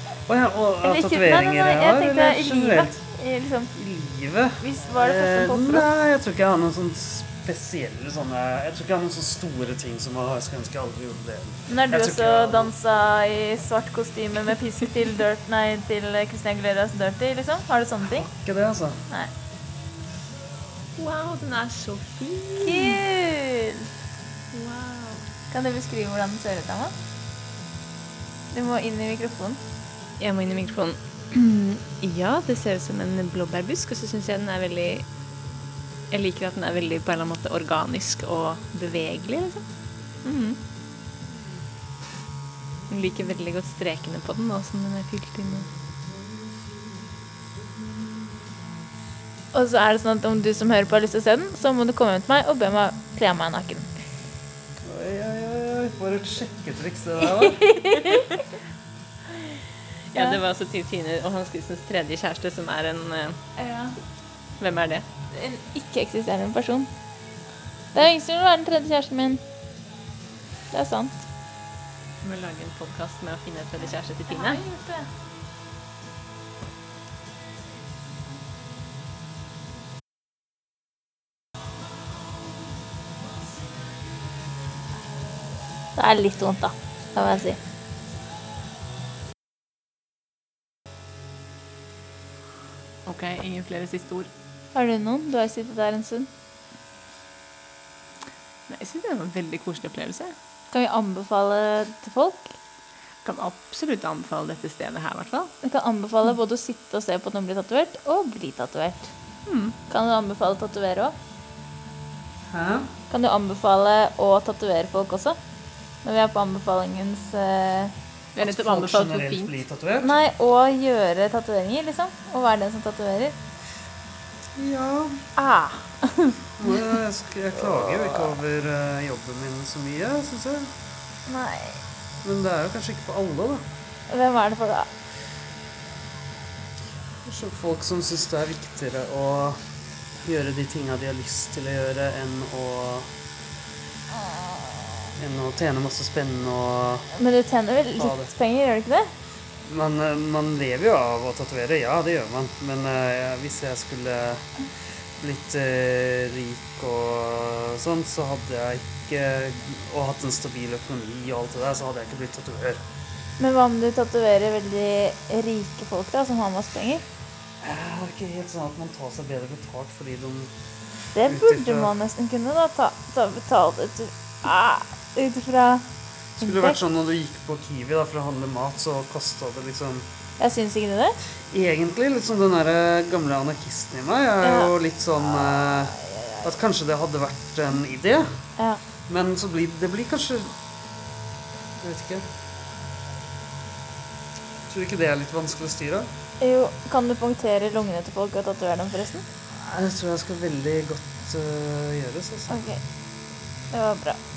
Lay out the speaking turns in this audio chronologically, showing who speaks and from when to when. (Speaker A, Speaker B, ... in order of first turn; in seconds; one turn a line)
Speaker A: 0.3-3.0
Speaker B: 0.8-3.7
Speaker A: 3.7-12.7
Speaker B: 4.6-5.9
Speaker B: 11.7-18.3
Speaker A: 18.1-19.0
Speaker C: 21.0-23.0
Speaker B: 22.6-23.9
Speaker C: 24.5-25.2
Speaker B: 25.5-26.9
Speaker B: 28.5-29.6
Speaker C: 30.2-35.0
Speaker C: 36.1-39.6
Speaker C: 40.2-40.6
Speaker C: 42.9-45.7
Speaker B: 49.5-53.9
Speaker A: 54.8-57.8
Speaker B: 57.3-58.2
Speaker C: 60.1-63.4
Speaker B: 63.6-63.9
Speaker C: 64.6-65.0
Speaker B: 65.3-66.9
Speaker B: 67.9-69.4
Speaker B: 70.7-71.2
Speaker C: 72.2-74.6
Speaker B: 74.3-75.1
Speaker B: 86.0-87.6
Speaker C: 93.0-94.3
Speaker B: 94.7-96.3
Speaker C: 98.7-100.3
Speaker B: 100.7-102.5
Speaker C: 103.2-105.5
Speaker B: 105.6-109.1
Speaker C: 109.5-109.8
Speaker B: 109.9-111.1
Speaker A: 112.5-112.9
Speaker B: 113.1-115.4
Speaker B: 116.0-117.9
Speaker C: 118.3-119.6
Speaker A: 118.4-120.1
Speaker B: 120.0-123.3
Speaker A: 124.5-125.2
Speaker B: 125.3-126.7
Speaker A: 126.6-130.7
Speaker B: 131.3-131.8
Speaker A: 132.2-133.7
Speaker B: 134.1-134.9
Speaker A: 137.2-139.7
Speaker A: 140.2-143.1
Speaker A: 145.2-147.1
Speaker B: 147.2-149.1
Speaker A: 148.0-148.3
Speaker A: 149.6-162.8
Speaker B: 163.4-167.0
Speaker A: 167.6-170.5
Speaker B: 171.1-175.9
Speaker A: 171.2-171.9
Speaker A: 176.4-180.1
Speaker B: 176.4-176.8
Speaker B: 180.4-181.2
Speaker A: 181.5-188.4
Speaker B: 184.4-184.7
Speaker A: 189.1-190.6
Speaker A: 191.8-192.2
Speaker A: 194.7-196.1
Speaker B: 196.4-199.2
Speaker A: 199.5-202.6
Speaker B: 202.5-202.8
Speaker B: 203.7-204.2